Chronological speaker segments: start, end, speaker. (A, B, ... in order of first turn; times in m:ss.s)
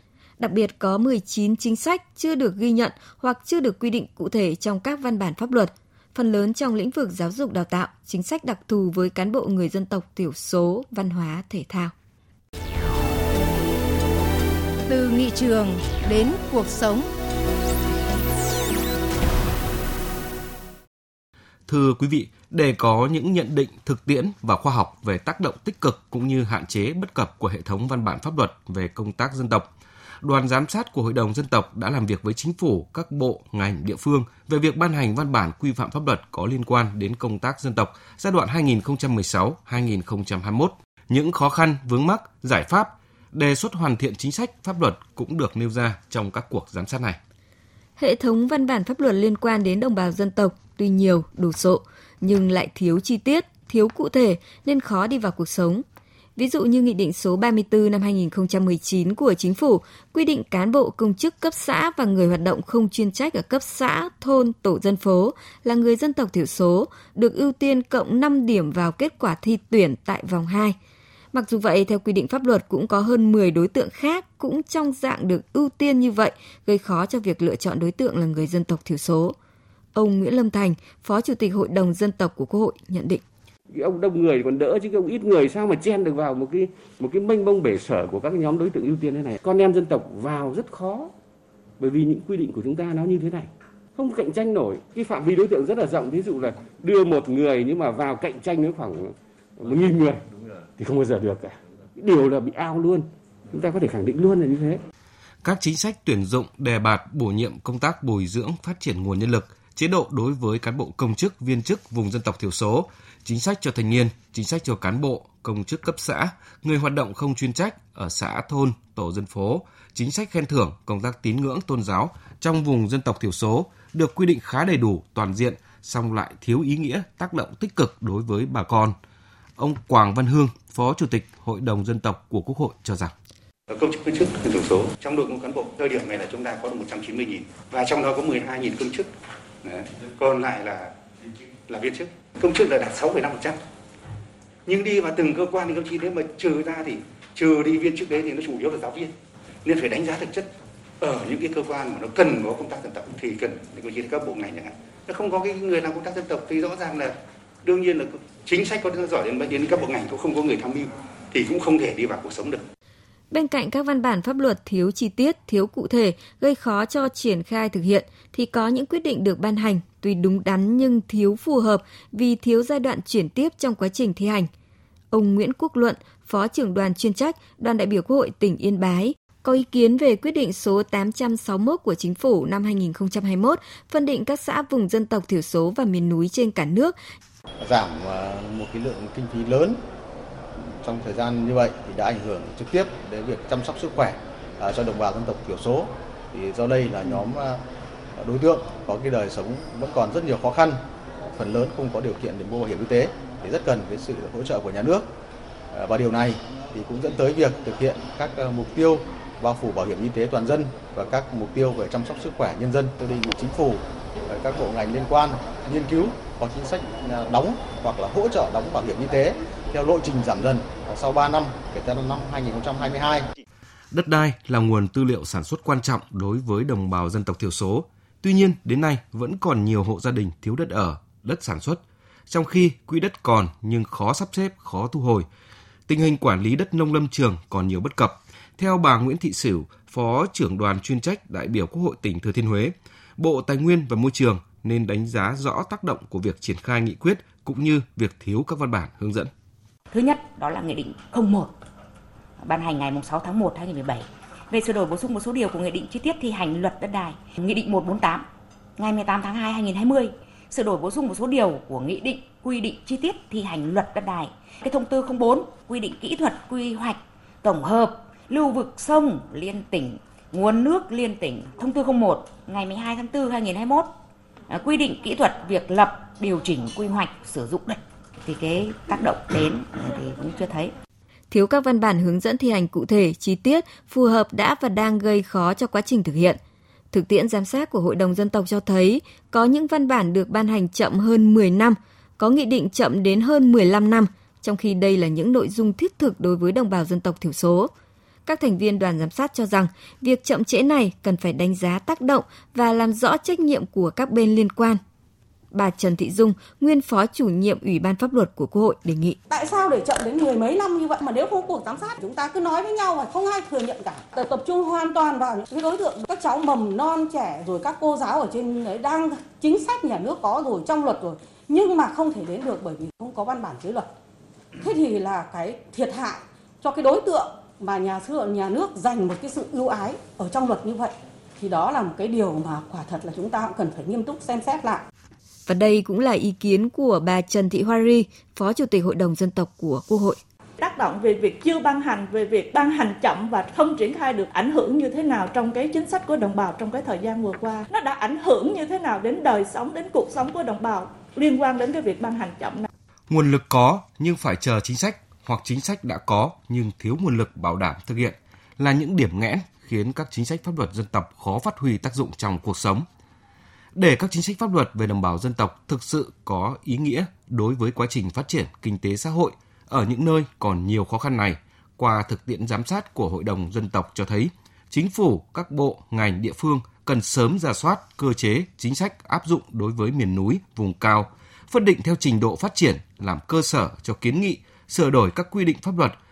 0:00.4-0:11.9 A
0:14.9-0:17.1 B
0:21.7-0:29.7 C
0:30.2-0:47.2 C
0:48.0-0:55.8 A
0:56.4-1:10.8 A
1:11.3-1:19.4 A
1:19.9-1:23.2 A
1:23.7-1:31.1 D
1:31.8-1:40.2 D
1:40.8-1:44.8 D
1:45.4-2:08.9 C
2:09.6-2:13.1 C
2:13.7-2:19.1 E
2:19.6-2:20.9 E
2:21.7-2:23.6 E
2:24.6-2:29.1 E
2:29.6-2:30.4 E
2:31.0-2:37.1 E
2:37.6-2:42.6 E
2:43.3-2:54.5 A
2:55.1-3:07.0 A
3:07.6-3:09.8 F
3:10.6-3:17.6 F
3:18.2-3:20.8 F
3:21.3-3:25.1 F
3:25.7-3:43.3 F
3:43.9-3:55.2 C
3:55.9-4:09.3 C
4:09.9-4:11.5 G
4:12.4-4:18.2 G
4:18.8-4:33.9 G
4:34.5-4:40.7 G
4:41.3-4:46.4 A
4:46.9-4:57.7 A
4:58.2-5:04.8 A
5:05.5-5:09.2 A
5:09.3-5:23.9 H
5:24.6-5:34.8 H
5:35.5-5:40.2 A
5:40.6-5:52.7 I
5:53.1-6:02.8 C
6:03.7-6:26.0 C